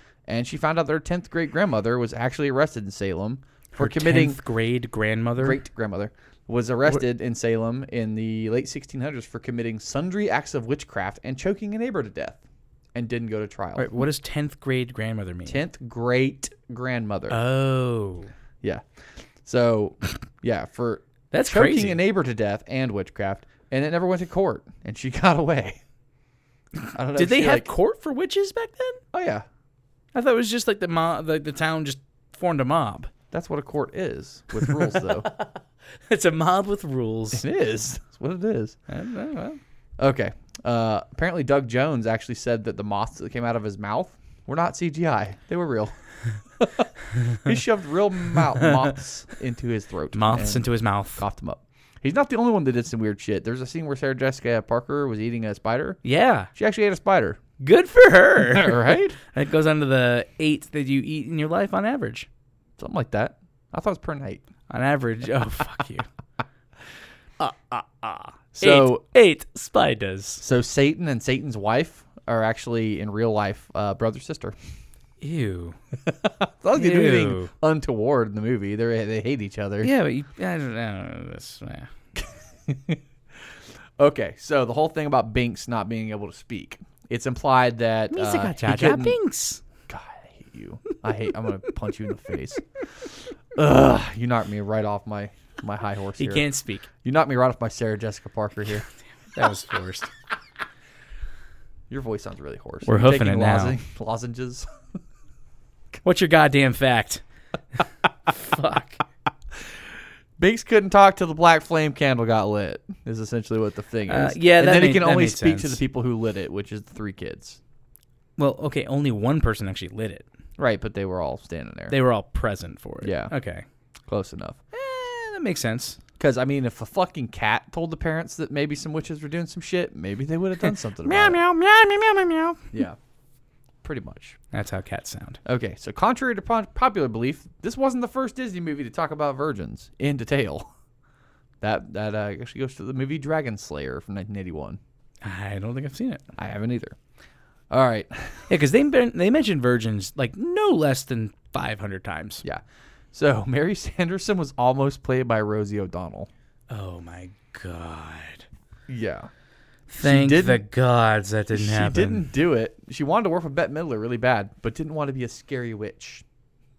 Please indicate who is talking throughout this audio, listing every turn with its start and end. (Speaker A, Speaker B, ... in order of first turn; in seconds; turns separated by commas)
Speaker A: 0.3-4.4, Speaker B: 3.8-5.6, Speaker A: 5.4-12.4, Speaker A: 12.9-14.0, Speaker B: 13.8-15.6, Speaker A: 15.5-17.4, Speaker B: 17.3-18.3, Speaker A: 19.4-25.8, Speaker B: 21.3-22.0, Speaker A: 26.9-27.7, Speaker B: 27.1-29.0, Speaker A: 29.1-29.4, Speaker B: 30.1-33.1, Speaker A: 33.3-35.3, Speaker B: 34.6-37.4, Speaker A: 37.3-38.8, Speaker B: 38.9-39.6, Speaker A: 40.0-45.9, Speaker A: 46.6-56.0, Speaker B: 48.5-48.9, Speaker B: 50.1-51.2, Speaker B: 56.0-56.5, Speaker A: 56.5-57.4, Speaker B: 57.6-62.3, Speaker A: 58.5-59.2, Speaker A: 62.8-64.4, Speaker B: 64.7-66.1, Speaker B: 67.4-70.4, Speaker A: 68.5-69.0, Speaker A: 70.4-74.6, Speaker B: 75.2-75.8, Speaker A: 76.1-79.9, Speaker B: 76.7-77.5, Speaker B: 79.8-81.9, Speaker A: 82.2-83.0, Speaker A: 84.0-89.2, Speaker B: 88.1-89.6, Speaker A: 89.9-96.5, Speaker B: 96.2-96.9, Speaker A: 97.0-98.9, Speaker B: 99.3-100.1, Speaker A: 101.9-104.7, Speaker B: 102.8-103.8, Speaker B: 106.0-107.2, Speaker B: 108.3-109.0, Speaker A: 110.4-117.6, Speaker B: 114.1-115.8, Speaker B: 118.4-120.3, Speaker A: 120.6-122.0, Speaker B: 121.9-123.7, Speaker A: 123.0-123.3, Speaker A: 124.1-124.6, Speaker B: 124.7-126.0, Speaker A: 126.2-131.4, Speaker B: 131.0-132.7, Speaker A: 132.7-133.0, Speaker A: 133.8-134.4, Speaker B: 134.5-135.4, Speaker A: 135.4-140.7, Speaker A: 141.6-144.8, Speaker B: 145.2-146.3, Speaker A: 146.3-147.0, Speaker A: 147.7-148.5, Speaker B: 148.5-152.4, Speaker A: 152.4-156.3, Speaker B: 156.7-158.5, Speaker A: 158.9-159.3, Speaker B: 159.9-162.3, Speaker A: 160.0-160.6, Speaker A: 161.5-166.2